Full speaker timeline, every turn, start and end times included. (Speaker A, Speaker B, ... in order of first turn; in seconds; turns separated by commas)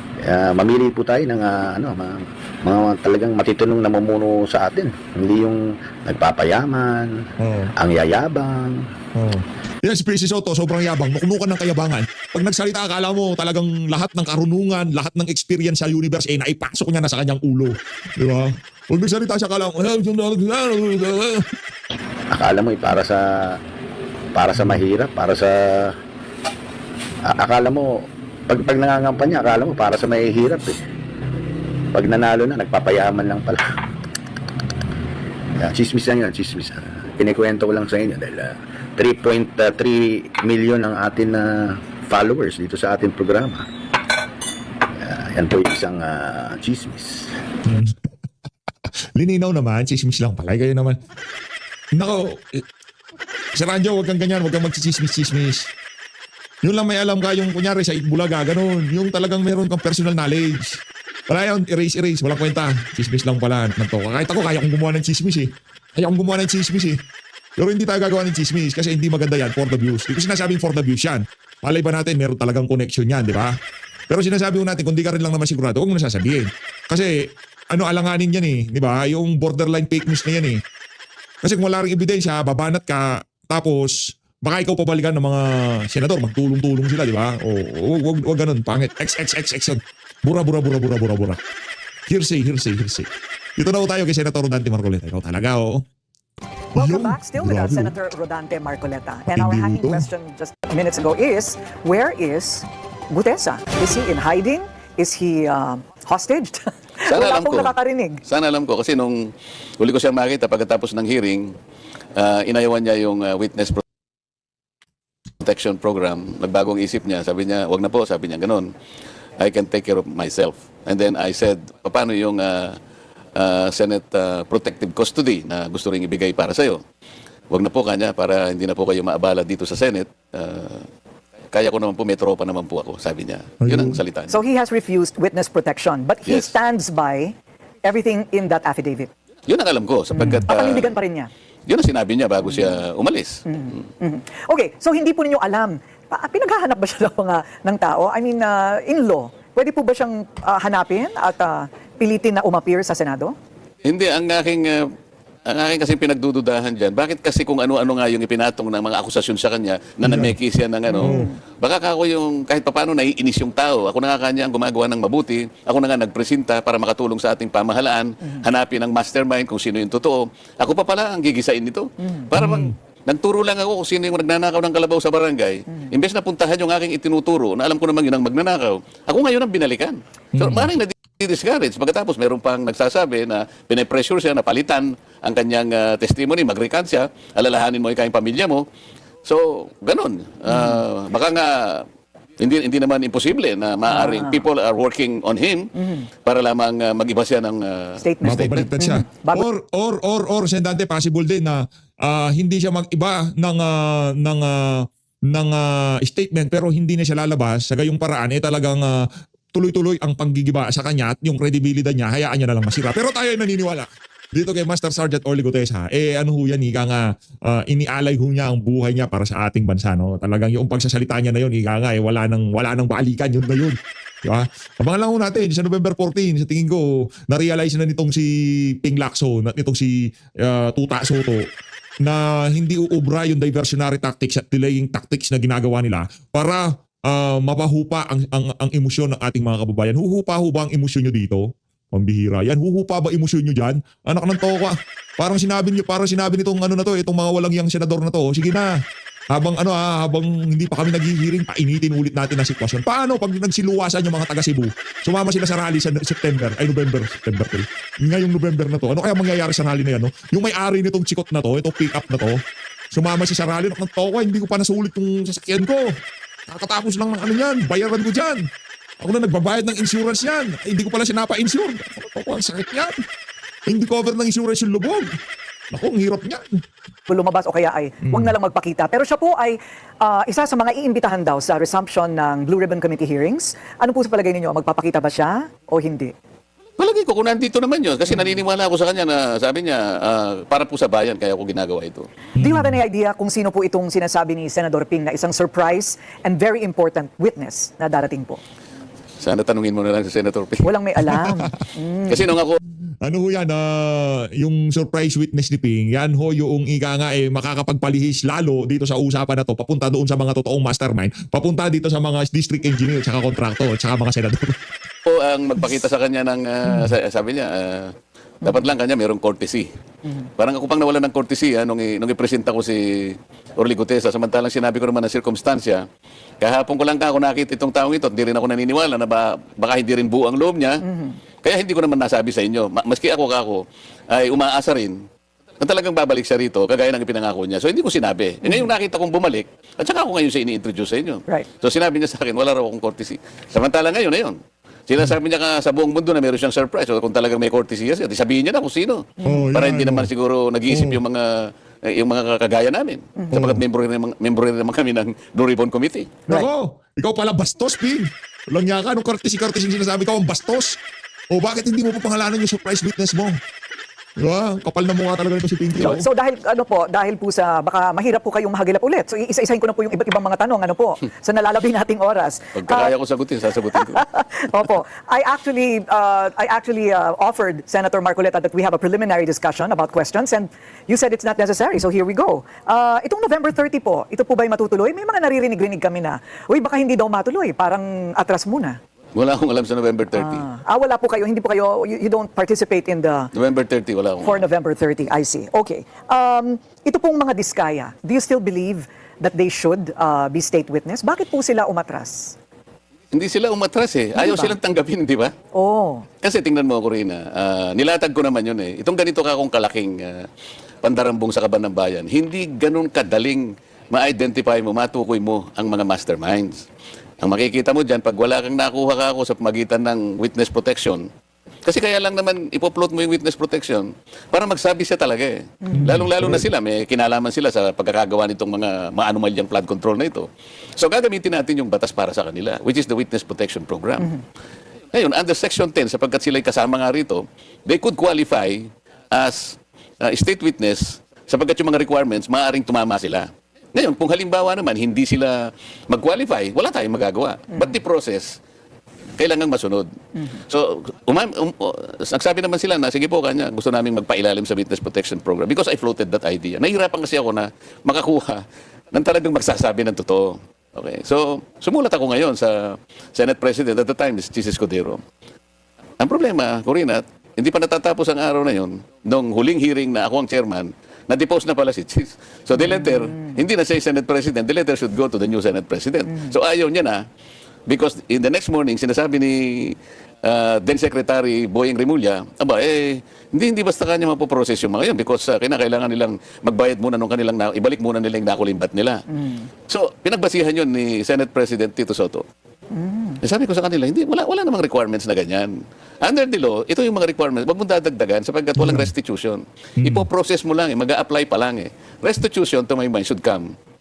Speaker A: 0.2-8.9, Speaker B: 7.4-7.7, Speaker B: 9.2-21.5, Speaker A: 22.3-23.6, Speaker A: 24.3-26.0, Speaker A: 27.2-30.8, Speaker A: 31.9-33.7, Speaker A: 35.6-43.6, Speaker A: 45.0-47.4, Speaker B: 47.6-48.0, Speaker B: 49.1-51.0, Speaker B: 51.9-52.6, Speaker B: 53.5-55.7, Speaker B: 56.6-67.0, Speaker B: 67.6-73.5, Speaker B: 74.1-80.6, Speaker B: 81.4-91.4, Speaker B: 92.1-95.8, Speaker B: 96.7-97.9, Speaker C: 96.8-108.2, Speaker B: 99.3-100.0, Speaker D: 107.1-111.5, Speaker D: 112.2-113.8, Speaker D: 115.4-118.7, Speaker D: 119.4-122.8, Speaker D: 123.3-126.8, Speaker D: 127.5-130.9, Speaker D: 131.5-134.4, Speaker B: 133.6-134.0, Speaker C: 134.3-139.1, Speaker D: 136.3-136.5, Speaker D: 139.5-140.9, Speaker C: 140.1-141.3, Speaker B: 140.2-140.5, Speaker D: 141.7-143.4, Speaker C: 142.5-142.8, Speaker C: 143.4-153.3, Speaker D: 153.9-154.9, Speaker D: 155.5-188.6, Speaker B: 160.0-160.4, Speaker C: 160.9-161.4, Speaker B: 161.0-161.3, Speaker B: 172.3-172.8, Speaker B: 180.3-180.7, Speaker D: 189.2-191.9, Speaker C: 190.5-190.8, Speaker D: 192.4-195.7, Speaker C: 193.9-194.4, Speaker C: 195.8-196.1, Speaker D: 196.2-198.5, Speaker C: 198.0-199.4, Speaker B: 198.2-231.5, Speaker B: 232.0-248.7, Speaker B: 249.3-262.4, Speaker B: 262.9-268.4, Speaker B: 269.0-272.9, Speaker B: 273.7-275.1, Speaker B: 275.7-276.6, Speaker C: 277.1-286.1, Speaker B: 278.1-278.3, Speaker D: 286.8-292.1, Speaker B: 292.4-292.8, Speaker C: 292.4-298.4, Speaker D: 299.2-300.7, Speaker C: 300.6-302.3, Speaker B: 301.1-301.5, Speaker D: 302.1-302.6, Speaker B: 303.0-314.6, Speaker D: 315.1-319.7, Speaker B: 316.7-316.9, Speaker D: 320.4-325.8, Speaker D: 326.4-330.8, Speaker C: 330.8-331.2, Speaker D: 331.4-335.0, Speaker D: 335.6-356.2, Speaker C: 349.2-349.5, Speaker B: 349.2-350.1, Speaker B: 350.7-351.0, Speaker B: 353.3-353.6, Speaker B: 356.3-360.8, Speaker B: 361.3-363.4, Speaker B: 364.2-366.1, Speaker C: 365.8-372.9, Speaker D: 372.6-374.1, Speaker C: 373.7-388.8, Speaker D: 389.1-390.4, Speaker C: 390.1-393.3, Speaker D: 393.3-394.4, Speaker C: 394.2-402.4, Speaker D: 403.1-405.3, Speaker C: 404.1-404.5, Speaker C: 405.6-406.1, Speaker D: 406.2-410.3, Speaker D: 410.8-416.6, Speaker D: 417.2-421.1, Speaker D: 421.6-434.1, Speaker C: 425.6-425.9, Speaker B: 425.8-426.4, Speaker D: 434.9-448.4, Speaker D: 449.2-465.0, Speaker D: 466.0-477.1, Speaker C: 472.6-473.4, Speaker D: 477.7-489.1, Speaker C: 489.1-489.5, Speaker D: 489.7-492.2, Speaker C: 492.7-493.2, Speaker D: 493.2-503.6, Speaker B: 498.6-498.9, Speaker B: 499.8-500.1